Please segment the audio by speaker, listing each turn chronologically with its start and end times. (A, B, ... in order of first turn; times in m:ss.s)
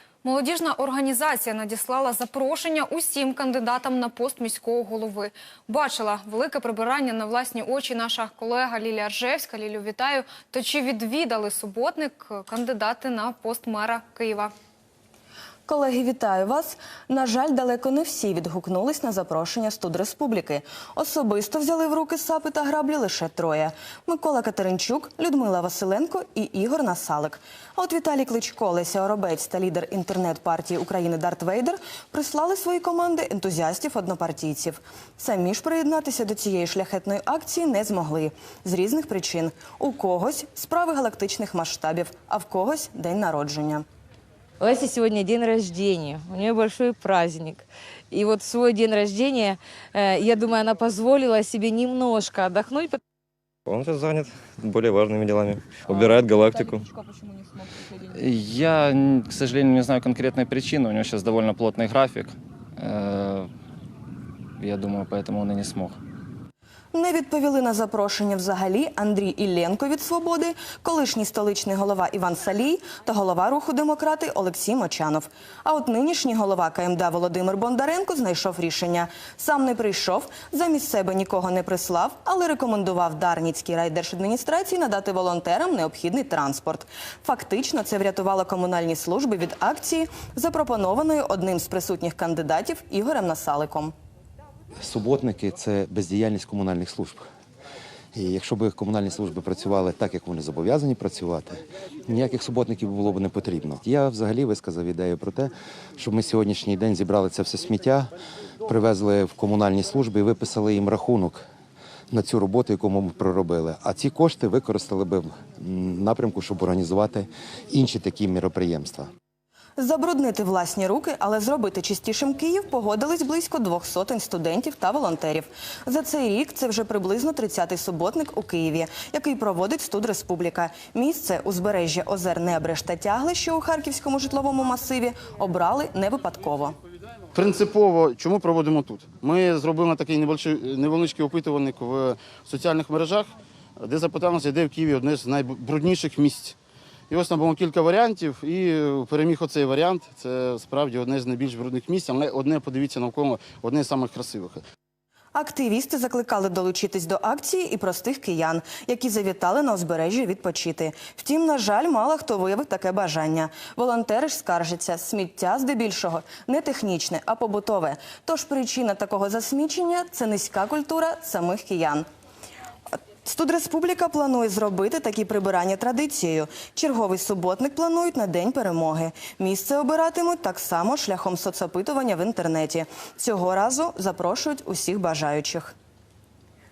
0:00.2-0:14.5 A
0:15.6-0:43.8 B
0:44.6-0:53.0 C
0:53.6-0:56.9 D
0:58.1-1:03.5 E
1:04.6-1:06.0 E
1:06.9-1:33.9 B
1:34.8-1:37.3 F
1:38.1-1:48.1 F
1:48.6-1:51.4 F
1:52.1-1:59.1 F
1:59.8-2:16.8 B
2:17.3-2:26.6 G
2:27.1-2:34.6 G
2:35.3-2:52.0 B
2:53.2-3:05.7 B